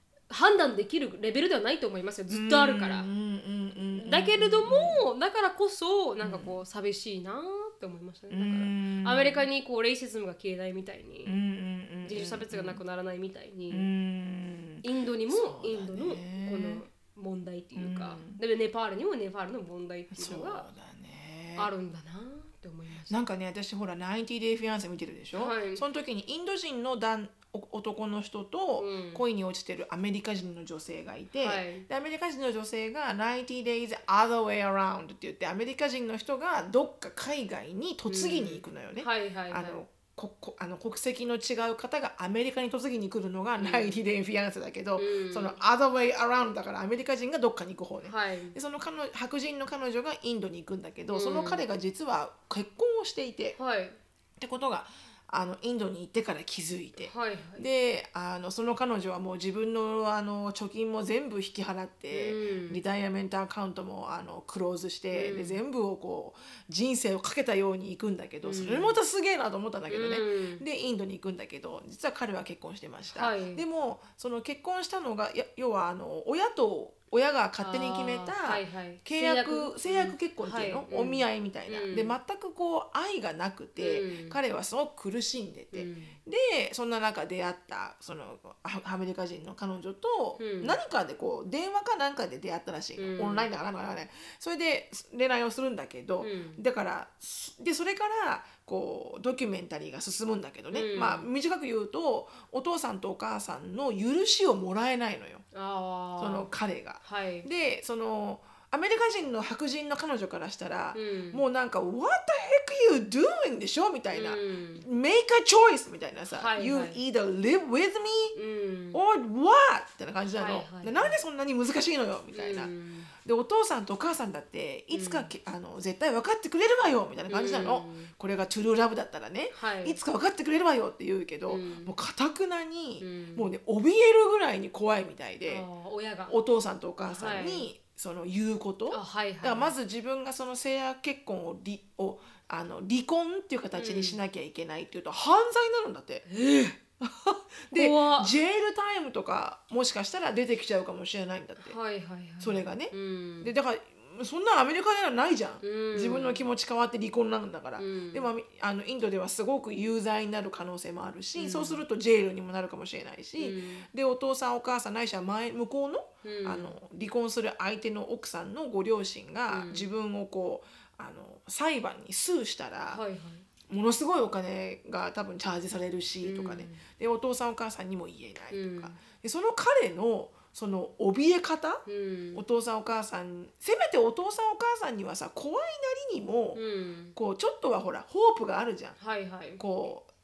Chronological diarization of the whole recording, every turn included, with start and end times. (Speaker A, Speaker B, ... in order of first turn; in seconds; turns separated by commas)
Speaker A: 0.3-3.1, Speaker B: 2.3-5.0, Speaker A: 4.0-11.4, Speaker B: 6.2-6.6, Speaker B: 8.3-9.5, Speaker B: 11.2-12.8, Speaker A: 12.0-13.9, Speaker B: 13.7-16.8, Speaker A: 14.8-20.7, Speaker B: 17.8-18.4, Speaker B: 20.1-21.7, Speaker A: 21.6-23.2, Speaker B: 23.1-53.6, Speaker A: 25.3-25.9, Speaker A: 28.8-29.2, Speaker A: 31.4-31.9, Speaker A: 38.1-39.8, Speaker A: 43.6-44.0, Speaker A: 45.0-45.6, Speaker A: 48.0-48.6, Speaker A: 51.1-51.6, Speaker A: 53.6-54.0, Speaker B: 54.4-105.4, Speaker A: 57.0-57.6, Speaker A: 62.1-62.8, Speaker A: 65.1-65.6, Speaker A: 68.4-69.0, Speaker A: 69.9-70.6, Speaker A: 73.1-73.6, Speaker A: 77.6-82.2, Speaker A: 83.8-84.4, Speaker A: 85.7-86.2, Speaker A: 90.4-90.8, Speaker A: 93.0-93.5, Speaker A: 96.2-96.6, Speaker A: 100.7-101.3, Speaker A: 105.5-106.5, Speaker B: 106.2-118.3, Speaker A: 107.0-107.5, Speaker A: 110.9-111.4, Speaker A: 114.1-114.8, Speaker A: 116.3-117.0, Speaker A: 118.3-119.0, Speaker B: 118.9-122.7, Speaker A: 120.3-121.2, Speaker A: 122.3-123.1, Speaker B: 123.2-135.7, Speaker A: 124.9-125.3, Speaker A: 127.3-128.1, Speaker A: 129.5-130.0, Speaker A: 131.5-131.9, Speaker A: 133.0-133.5, Speaker A: 135.5-136.4, Speaker B: 136.3-146.3, Speaker A: 137.0-137.7, Speaker A: 138.9-139.8, Speaker A: 143.8-144.2, Speaker A: 146.3-146.8, Speaker B: 147.0-151.8, Speaker A: 147.7-148.3, Speaker A: 151.6-153.5, Speaker B: 152.4-173.0, Speaker A: 155.6-156.4, Speaker A: 157.8-158.3, Speaker A: 161.4-161.8, Speaker A: 163.4-163.9, Speaker A: 166.2-166.8, Speaker A: 169.5-169.9, Speaker A: 172.9-173.5, Speaker B: 173.7-181.8, Speaker A: 176.2-176.8, Speaker A: 178.5-179.0, Speaker A: 181.9-182.4, Speaker B: 182.3-186.6, Speaker A: 186.6-187.2, Speaker B: 187.2-189.0, Speaker A: 189.0-189.6, Speaker B: 189.6-190.1